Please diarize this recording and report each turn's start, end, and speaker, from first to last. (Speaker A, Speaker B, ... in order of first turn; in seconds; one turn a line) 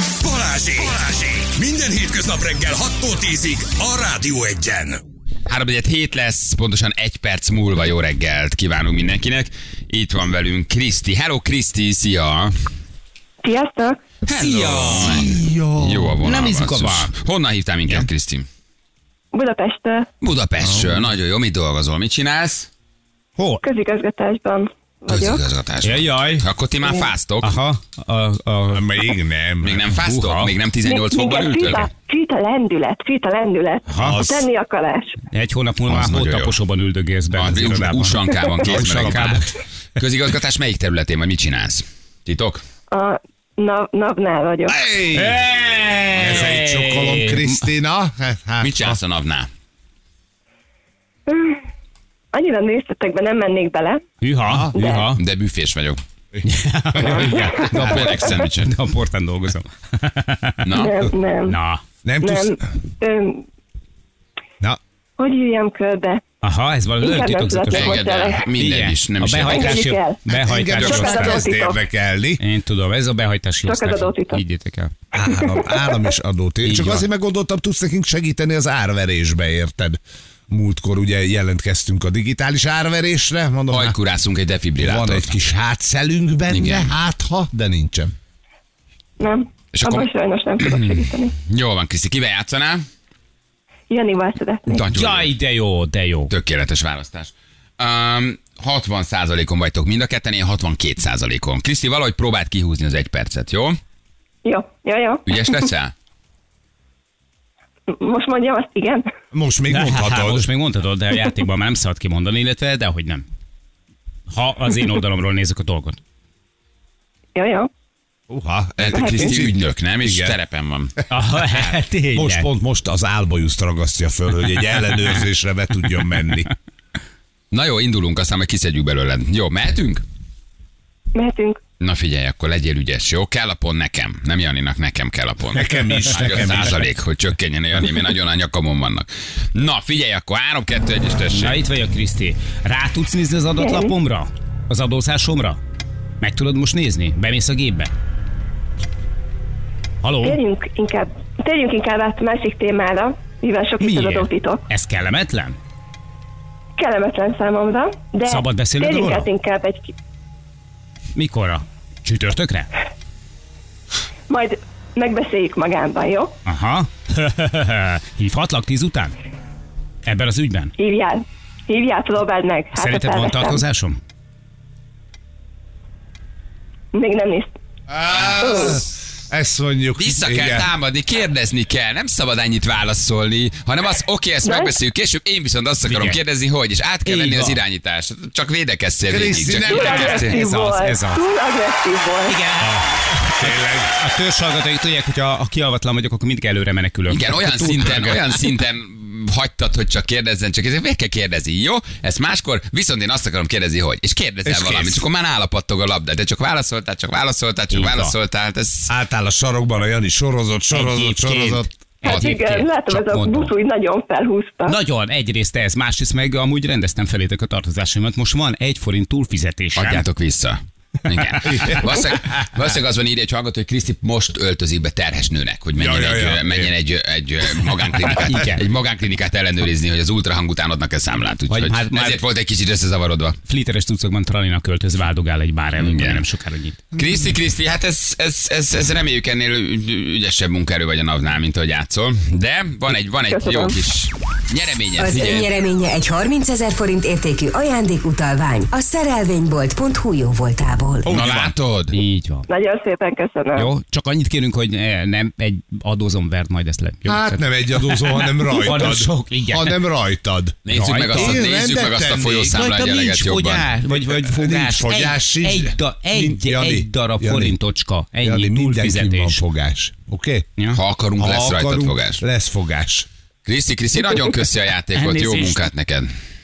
Speaker A: 0.2-5.0
Speaker B: 5.5-12.5
Speaker C: 13.4-14.0
Speaker B: 14.3-18.5
Speaker D: 14.3-15.4
Speaker E: 14.4-16.1
Speaker D: 16.2-17.1
Speaker C: 19.3-20.1
Speaker B: 20.2-22.7
Speaker E: 20.6-21.1
Speaker D: 23.4-23.6
Speaker C: 23.6-25.4
Speaker B: 25.1-27.5
Speaker D: 25.8-26.5
Speaker D: 27.4-29.1
Speaker E: 28.7-29.8
Speaker B: 29.6-31.9
Speaker D: 29.9-30.5
Speaker C: 30.8-35.2
Speaker D: 33.9-34.2
Speaker E: 34.0-34.5
Speaker D: 35.3-39.4
Speaker B: 35.9-36.6
Speaker B: 37.3-42.6
Speaker E: 38.6-39.5
Speaker C: 42.9-44.8
Speaker E: 44.7-45.5
Speaker D: 45.1-47.6
Speaker E: 46.1-49.0
Speaker B: 48.6-49.5
Speaker C: 51.3-51.6
Speaker C: 52.3-54.0
Speaker D: 54.2-55.2
Speaker E: 54.5-54.7
Speaker C: 54.7-55.1
Speaker B: 55.1-56.0
Speaker D: 56.4-60.7
Speaker E: 57.0-58.2
Speaker C: 57.0-58.3
Speaker B: 57.5-58.7
Speaker B: 60.6-61.1
Speaker C: 60.8-61.6
Speaker D: 61.5-61.8
Speaker E: 62.0-62.6
Speaker C: 62.2-63.5
Speaker C: 65.2-66.2
Speaker D: 66.4-71.5
Speaker C: 67.0-68.5
Speaker B: 67.7-69.9
Speaker C: 69.4-71.8
Speaker E: 70.3-72.4
Speaker D: 72.4-74.9
Speaker C: 73.7-74.4
Speaker E: 75.1-84.0
Speaker C: 75.3-76.0
Speaker D: 76.6-77.0
Speaker B: 83.7-85.3
Speaker E: 84.8-88.1
Speaker B: 86.5-86.9
Speaker C: 89.2-91.3
Speaker B: 89.7-92.8
Speaker C: 93.9-94.8
Speaker B: 94.7-95.3
Speaker D: 94.9-96.3
Speaker B: 96.3-103.8
Speaker C: 104.4-105.5
Speaker B: 105.2-105.9
Speaker C: 107.9-109.1
Speaker E: 109.3-110.5
Speaker D: 109.7-113.2
Speaker D: 114.3-116.0
Speaker C: 117.3-117.7
Speaker E: 118.3-120.4
Speaker B: 118.8-120.9
Speaker C: 118.9-119.3
Speaker D: 121.1-122.5
Speaker E: 122.1-126.5
Speaker B: 127.5-130.0
Speaker C: 131.1-131.6
Speaker B: 131.8-141.6
Speaker E: 135.5-136.8
Speaker D: 141.3-145.6
Speaker C: 143.6-143.9
Speaker D: 146.2-147.9
Speaker D: 150.0-150.4
Speaker C: 150.2-154.6
Speaker D: 153.8-155.6
Speaker C: 156.8-159.9
Speaker D: 158.2-159.3
Speaker D: 161.1-162.7
Speaker C: 164.3-166.3
Speaker D: 166.4-169.1
Speaker D: 170.1-170.7
Speaker C: 170.8-173.6
Speaker D: 172.8-174.0
Speaker C: 176.9-177.6
Speaker E: 177.9-180.7
Speaker C: 178.4-178.8
Speaker B: 180.0-190.4
Speaker C: 184.4-184.7
Speaker D: 185.8-186.2
Speaker D: 187.1-187.6
Speaker E: 189.1-190.2
Speaker C: 189.7-192.4
Speaker D: 189.7-191.2
Speaker D: 192.3-198.3
Speaker E: 193.2-193.9
Speaker B: 197.1-208.9
Speaker E: 204.4-205.0
Speaker D: 207.7-208.1
Speaker E: 208.9-211.7
Speaker D: 210.7-213.5
Speaker C: 212.0-214.8
Speaker B: 212.0-212.4
Speaker D: 214.7-220.0
Speaker B: 219.8-233.4
Speaker D: 221.5-221.8
Speaker E: 225.8-226.7
Speaker D: 228.0-228.6
Speaker D: 231.5-232.2
Speaker D: 233.5-236.8
Speaker B: 235.8-236.2
Speaker B: 236.9-245.5
Speaker C: 243.3-243.8
Speaker F: 245.0-251.1
Speaker E: 251.0-251.6
Speaker B: 251.1-251.9
Speaker D: 251.9-252.5
Speaker C: 252.5-253.7
Speaker D: 253.6-259.8
Speaker E: 257.1-262.6
Speaker B: 260.6-263.7
Speaker D: 260.7-261.5
Speaker D: 262.5-269.4
Speaker E: 263.9-267.6
Speaker E: 268.2-270.5
Speaker B: 270.7-272.2
Speaker E: 271.2-273.1
Speaker B: 273.4-276.1
Speaker D: 274.9-275.7